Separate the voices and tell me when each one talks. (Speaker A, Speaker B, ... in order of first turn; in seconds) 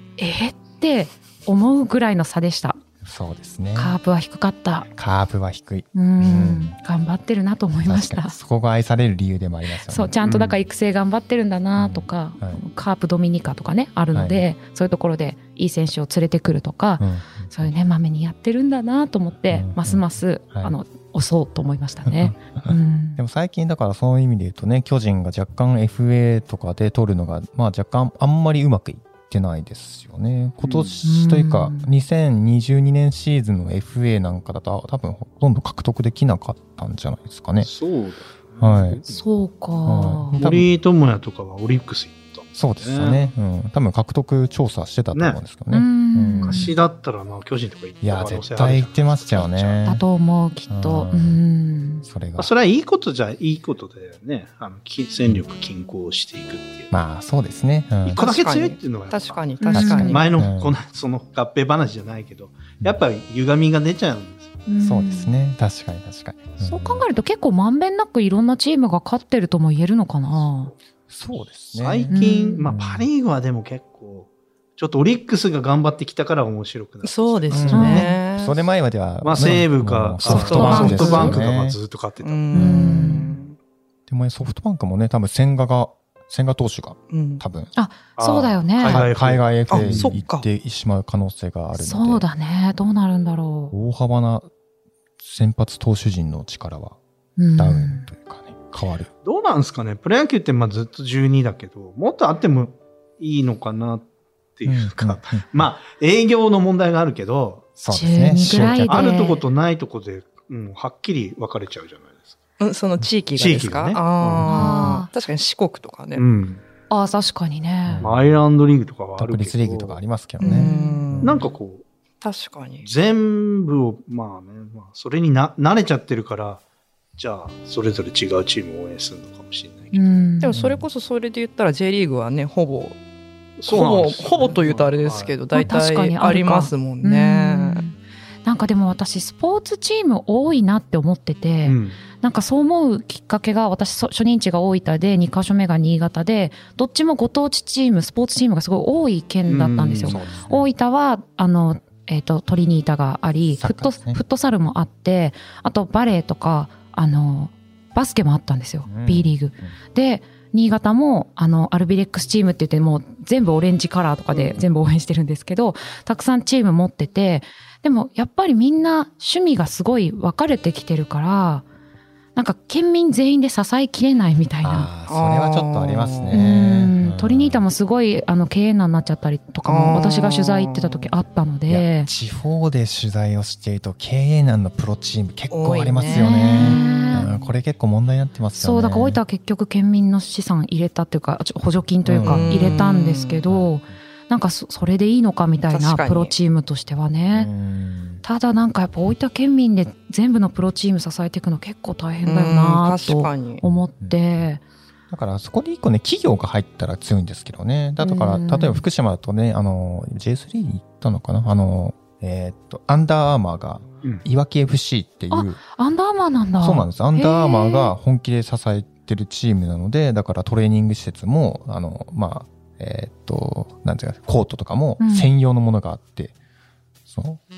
Speaker A: 0.2-2.8, 3.8-4.9, 5.9-8.4, 9.9-23.2, 31.0-31.9, 39.1-40.4, 45.7-46.7, 49.8-52.0, 59.6-60.2, 64.7-65.3, 66.6-70.7, 72.1-72.7, 77.7-78.1, 80.2-81.3, 82.5-83.4, 87.7-89.1, 91.7-93.7, 97.4-98.1, 107.9-109.4, 114.4-115.1, 116.9-118.0, 120.4-121.1, 129.9-130.5, 135.5-171.7, 172.3-174.9, 176.3-182.1, 186.1-187.3, 188.6-197.5, 198.2-204.6, 208.0-208.8, 215.3-217.9, 225.0-225.3
Speaker B: 3.0-4.0, 4.9-6.7, 7.8-10.4, 11.8-12.6, 14.1-14.4, 17.0-17.5, 19.5-20.7, 22.1-37.7, 38.6-39.0, 39.9-40.7, 42.5-46.7, 48.0-50.0, 50.7-51.4, 52.0-52.5, 56.9-58.2, 59.7-60.8, 64.8-67.0, 71.1-73.1, 77.5-81.8, 82.6-83.1, 84.1-87.7, 88.8-92.2, 93.7-94.5, 95.2-97.0, 97.6-99.1, 104.7-105.4, 107.8-109.1, 117.8-118.3, 119.2-121.4, 130.5-130.8, 150.0-150.7, 153.6-154.2, 158.9-159.7, 174.6-177.6, 181.7-189.2, 192.0-192.8, 193.5-193.8, 197.3-198.2, 203.6-204.4, 205.1-215.6, 216.6-226.3, 227.1-227.4
Speaker C: 30.6-31.0, 37.6-39.2, 40.4-43.3, 45.1-45.4, 46.4-49.9, 52.4-56.9, 58.0-64.6, 70.4-70.7, 71.7-78.1, 79.2-82.7, 88.2-90.1, 99.2-107.7, 108.4-112.3, 113.3-114.8, 116.2-116.6, 118.0-120.0, 121.2-121.8, 122.8-126.6, 127.2-130.2, 133.6-135.3, 141.6-142.0, 149.5-150.2, 164.3-164.6
Speaker D: 58.1-60.3, 77.0-78.6, 80.2-81.4, 82.2-83.5, 87.1-87.4, 89.7-90.5, 112.6-116.2, 120.4-121.5, 122.2-122.9, 130.4-133.0, 133.7-137.8, 175.1-176.4, 179.6-181.1, 185.5-187.4, 192.2-193.4, 195.7-196.3, 202.2-203.6